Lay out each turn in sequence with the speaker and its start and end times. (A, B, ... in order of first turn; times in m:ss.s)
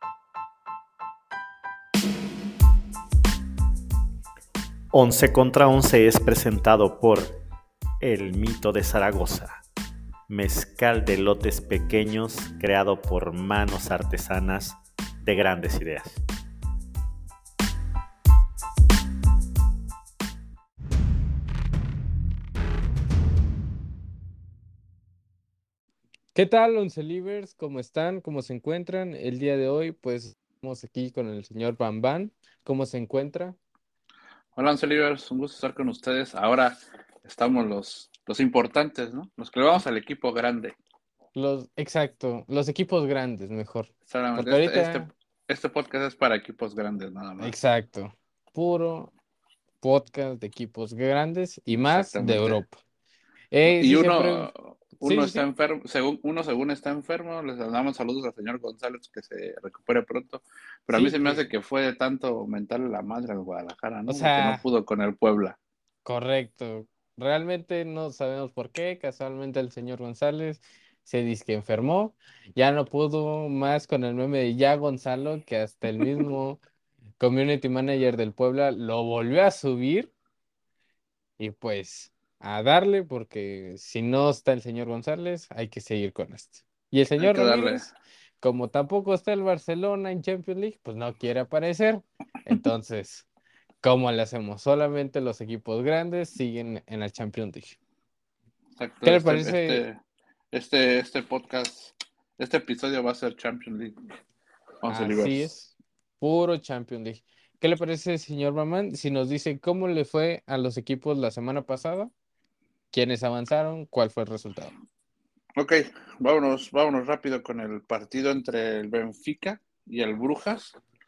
0:04.9-0:07.4 A
0:08.0-0:09.6 A
0:10.3-0:16.2 A
0:26.4-0:33.6 B
0:34.6-0:40.8 C
0:41.4-0:45.1 B
0:44.1-0:47.6 C
0:47.4-0:49.1 B
0:49.8-0:52.8 B
0:51.7-0:52.6 C
0:53.5-0:55.5 B
0:53.6-1:05.6 C
1:00.9-1:01.5 B
1:04.1-1:04.6 B
1:06.0-1:16.6 B
1:17.2-1:20.1 B
1:21.4-1:33.3 B
1:27.2-1:27.9 C
1:33.8-1:37.8 B
1:38.8-1:40.0 C
1:39.0-1:39.8 B
1:40.5-1:44.0 C
1:44.8-1:45.5 C
1:44.9-1:52.1 B
1:52.9-1:54.7 B
1:55.6-2:00.8 C